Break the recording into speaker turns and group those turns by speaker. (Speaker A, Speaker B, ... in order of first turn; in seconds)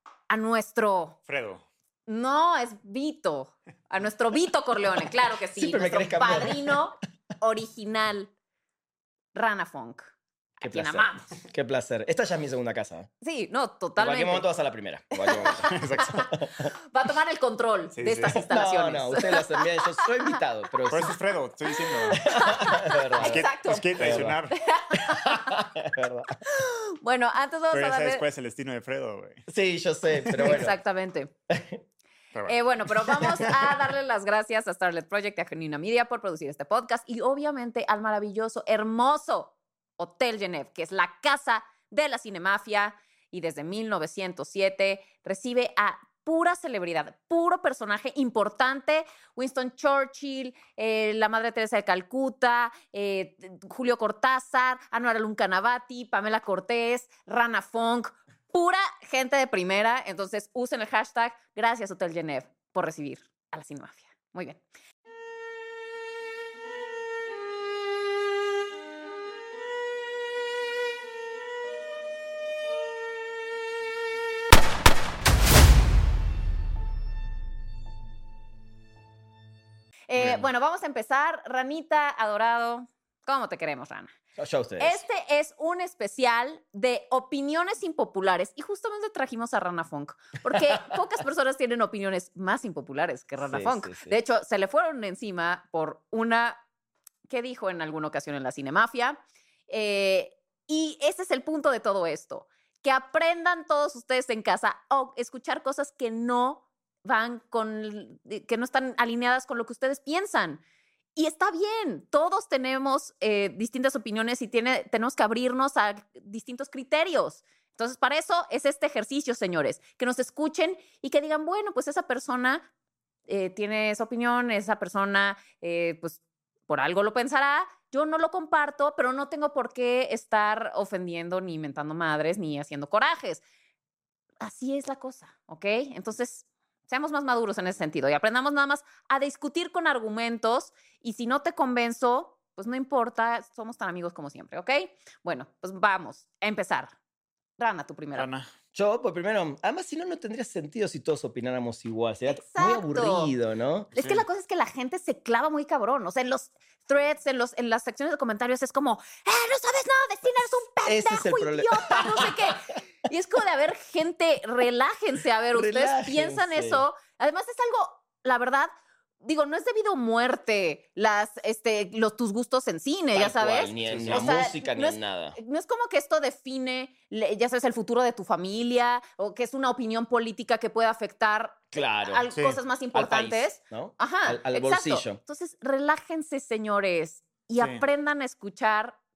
Speaker A: 0.3-1.2, 2.1-8.3, 9.3-10.1, 10.6-11.4, 13.2-14.4, 15.2-20.4, 22.0-25.6, 26.4-28.2, 30.4-31.3, 32.5-64.6, 80.1-84.1, 84.8-96.6, 97.3-110.6, 111.2-122.7, 123.3-133.4, 134.4-146.9, 147.6-148.3, 152.3-153.3, 153.9-168.7, 169.2-189.0
Speaker B: 1.3-1.6, 15.6-16.3, 17.9-18.4, 20.9-22.3, 23.2-24.6, 27.7-29.4, 30.2-30.6, 32.3-33.6, 148.1-148.5, 153.9-154.2, 173.9-174.2, 182.3-182.6, 187.6-187.8
Speaker C: 5.5-6.8, 10.6-13.1, 14.0-16.7, 18.3-21.1, 22.1-24.4, 24.9-26.4, 29.5-30.7, 31.5-31.8, 84.3-85.0, 93.4-94.1, 148.7-153.9, 160.8-162.3, 165.5-166.8, 173.1-175.4, 181.7-182.2, 182.9-185.2